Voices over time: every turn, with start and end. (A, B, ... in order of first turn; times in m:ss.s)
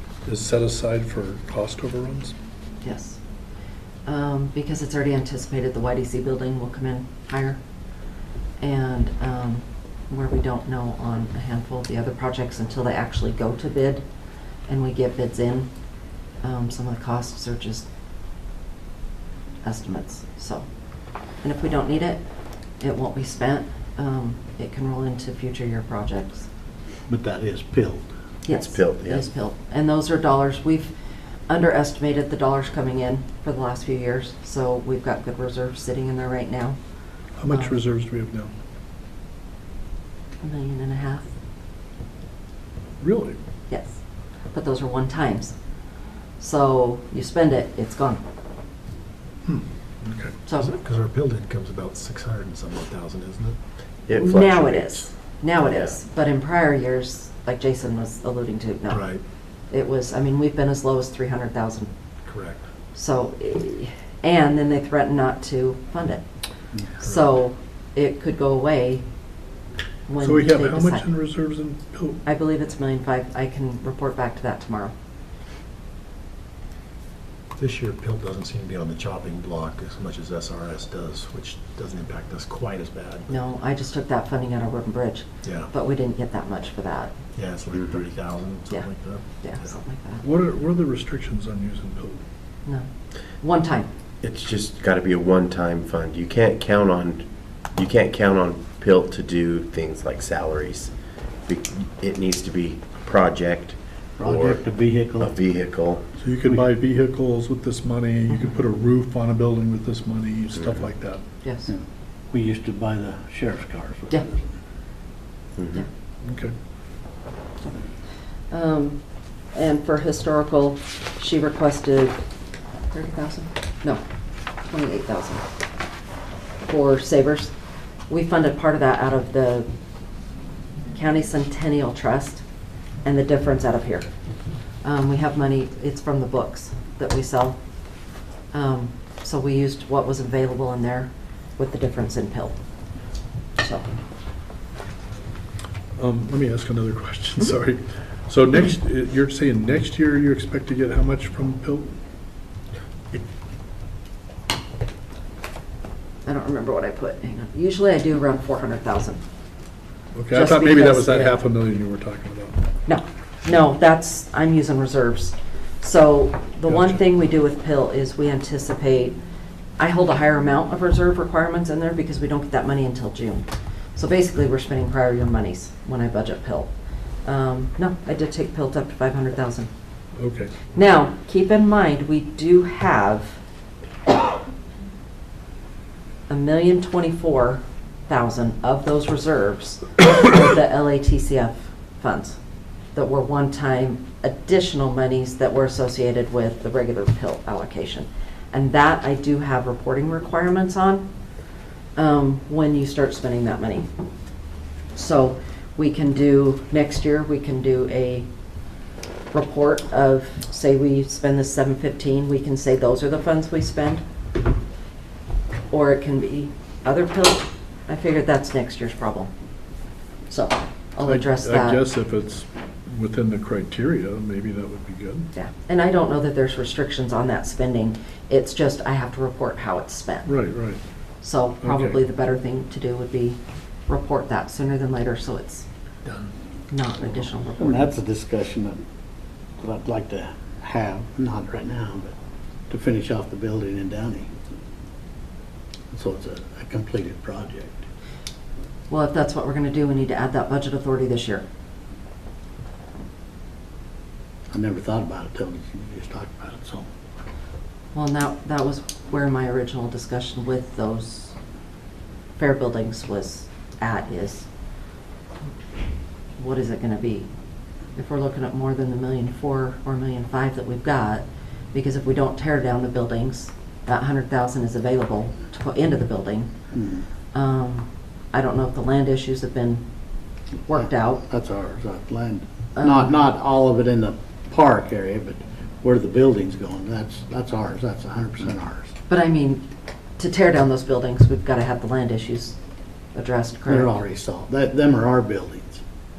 0:00.2-0:02.3 A
0:02.8-0:03.2 B
0:04.0-0:07.6 B
0:08.6-0:14.0 B
0:14.7-0:15.7 B
0:16.4-0:17.9 B
0:19.6-0:20.6 B
0:21.4-0:22.2 B
0:22.8-0:26.5 B
0:27.1-0:28.1 C
0:28.4-0:30.9 B
0:28.5-0:29.3 D
0:31.5-0:36.8 B
0:37.4-0:38.5 A
0:40.4-0:41.3 B
0:43.0-0:43.4 A
0:43.7-0:44.0 B
0:44.5-0:45.5 B
0:46.4-0:48.2 B
0:49.4-0:50.3 A
0:50.4-0:50.7 B
0:50.6-0:53.6 E
0:54.0-0:55.1 D
0:54.1-1:01.9 B
0:55.6-0:56.0 D
0:58.9-0:59.2 E
1:02.2-1:02.6 E
1:02.9-1:06.2 B
1:06.8-1:09.0 B
1:10.1-1:11.1 B
1:10.2-1:12.2 A
1:12.2-1:14.9 B
1:17.6-1:23.4 E
1:23.3-1:27.1 B
1:25.4-1:25.7 E
1:27.3-1:29.2 E
1:29.4-1:30.2 B
1:30.2-1:32.2 A
1:33.4-1:33.9 B
1:34.2-1:40.9 D
1:41.4-1:44.6 D
1:44.2-1:45.3 C
1:45.2-1:46.0 D
1:46.2-1:51.2 A
1:51.4-1:51.7 B
1:52.3-1:54.4 C
1:55.6-1:55.8 D
1:56.2-1:56.5 A
1:58.5-2:02.2 B
2:02.9-2:04.0 B
2:04.6-2:05.4 B
2:06.6-2:07.5 B
2:08.1-2:09.7 B
2:10.9-2:12.4 B
2:13.0-2:14.1 B
2:14.8-2:17.6 B
2:18.5-2:22.6 B
2:23.6-2:23.9 B
2:26.0-2:32.0 A
2:36.2-2:39.2 B
2:40.1-2:42.6 A
2:40.3-2:41.4 B
2:42.9-2:49.2 B
2:46.7-2:47.0 A
2:49.8-2:56.7 B
2:57.2-2:59.7 B
3:00.2-3:00.6 A
3:00.7-3:03.4 B
3:06.3-3:12.4 B
3:12.9-3:21.0 B
3:22.0-3:23.9 B
3:24.9-3:28.3 B
3:29.3-3:34.0 B
3:35.7-3:39.3 B
3:40.3-3:41.8 B
3:41.0-3:45.3 A
3:45.3-3:50.3 B
3:50.2-3:50.8 A
3:51.2-3:55.6 B
3:51.6-3:52.0 A
3:56.7-3:58.0 B
3:57.6-3:58.8 C
3:59.6-4:02.1 C
4:02.7-4:04.3 C
4:05.9-4:07.8 C
4:08.9-4:11.4 B
4:14.5-4:16.9 C
4:17.9-4:21.4 B
4:22.4-4:24.5 B
4:26.4-4:27.3 B
4:28.0-4:36.5 B
4:36.7-4:37.1 C
4:37.3-4:39.8 B
4:40.7-4:41.2 B
4:41.2-4:48.9 C
4:42.8-4:43.2 B
4:49.1-4:49.6 B
4:50.2-4:52.6 B
4:53.1-4:54.0 B
4:53.7-4:55.8 C